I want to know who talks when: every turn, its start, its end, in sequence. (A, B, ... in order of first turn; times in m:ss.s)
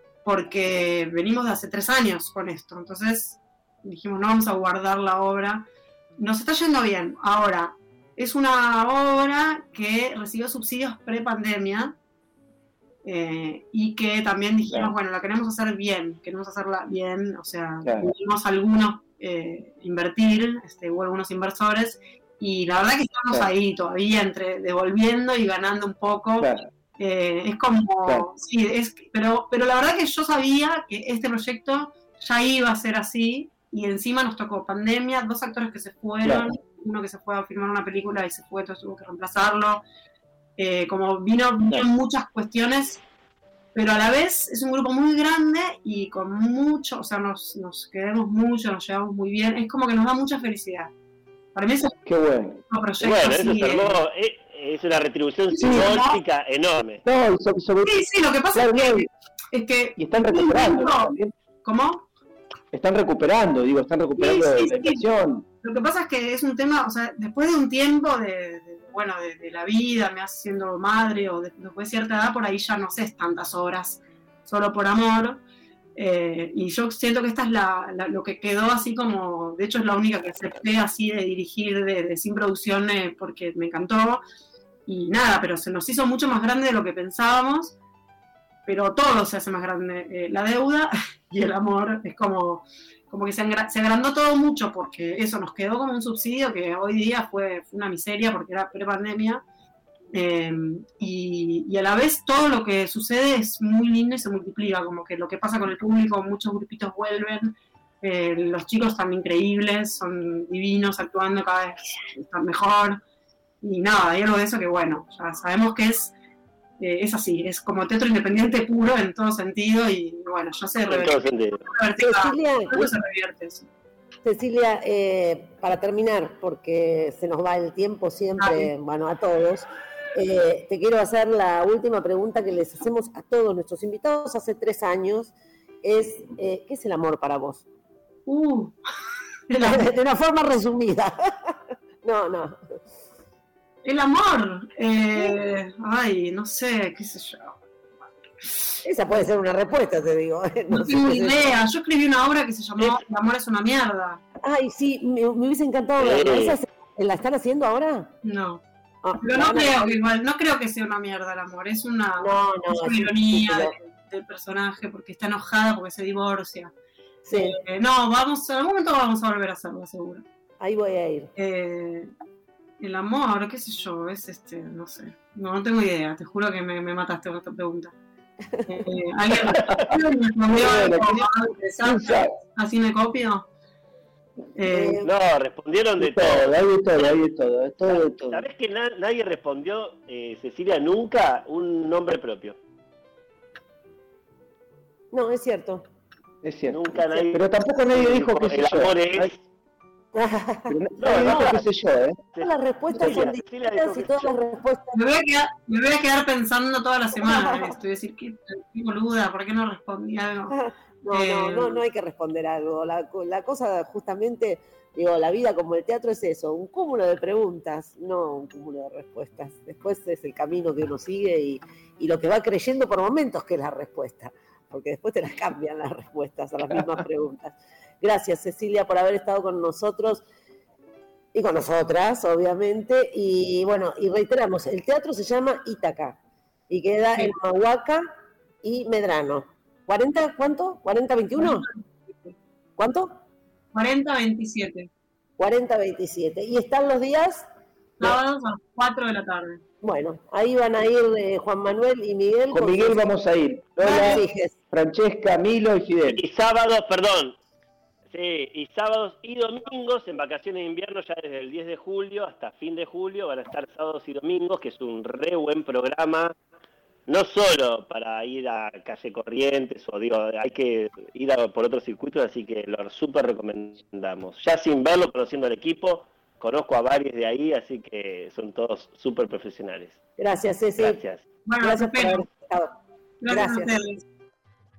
0:00.2-0:12.0 A
0:13.0-0:39.8 A
0:26.4-0:26.7 B
0:40.6-0:43.0 A
0:43.8-0:50.9 A
0:51.5-0:52.0 A
0:52.0-0:52.6 B
0:52.7-0:54.0 A
0:53.0-0:57.0 C
0:55.5-0:56.2 A
0:55.6-0:55.9 B
0:57.0-0:58.0 B
0:57.8-1:02.1 A
0:58.5-0:59.1 B
1:00.0-1:01.3 B
1:02.7-1:05.4 B
1:04.2-1:05.0 A
1:05.6-1:15.4 A
1:16.0-1:24.2 A
1:24.9-1:27.8 A
1:28.7-1:39.4 A
1:40.1-1:53.0 A
1:53.6-1:56.1 A
1:56.8-2:03.7 A
2:00.9-2:01.6 C
2:02.0-2:02.9 D
2:04.2-2:17.6 D
2:08.4-2:08.7 A
2:18.3-2:18.8 A
2:19.5-2:19.9 A
2:19.6-2:22.6 D
2:23.8-2:27.6 A
2:28.4-2:28.8 A
2:28.8-2:31.5 D
2:30.7-2:34.2 A
2:34.4-2:38.1 D
2:36.0-2:36.6 C
2:38.2-2:38.6 A
2:39.0-2:40.0 D
2:39.2-2:46.7 A
2:42.2-2:43.7 D
2:47.2-2:47.6 D
2:47.3-2:50.2 A
2:50.6-2:51.3 D
2:51.4-2:52.1 A
2:52.8-2:57.9 A
2:58.5-2:58.9 D
2:58.7-3:03.5 A
3:00.5-3:01.2 B
3:01.8-3:02.3 B
3:04.6-3:05.0 A
3:04.7-3:05.1 D
3:05.0-3:07.2 C
3:06.0-3:08.4 B
3:07.9-3:12.6 C
3:15.1-3:15.9 D
3:16.4-3:19.3 B
3:16.7-3:19.4 C
3:20.1-3:21.4 D
3:20.7-3:22.2 B
3:21.0-3:21.6 C
3:22.3-3:24.4 C
3:22.4-3:25.0 D
3:24.9-3:30.6 A
3:27.2-3:27.7 D
3:30.5-3:50.2 D
3:31.1-3:31.8 A
3:51.3-3:58.0 D
3:58.6-4:01.7 D
4:01.4-4:02.4 A
4:02.8-4:03.1 D
4:03.7-4:04.9 A
4:05.4-4:07.5 D
4:08.0-4:09.6 A
4:09.8-4:13.0 D
4:12.5-4:16.2 B
4:13.8-4:14.2 A
4:13.8-4:14.6 D
4:16.1-4:17.4 C
4:18.1-4:26.3 C
4:27.1-4:40.0 C
4:40.2-4:41.0 D
4:40.8-4:41.2 C
4:41.5-4:42.3 A
4:41.6-4:43.8 D
4:43.2-4:44.0 A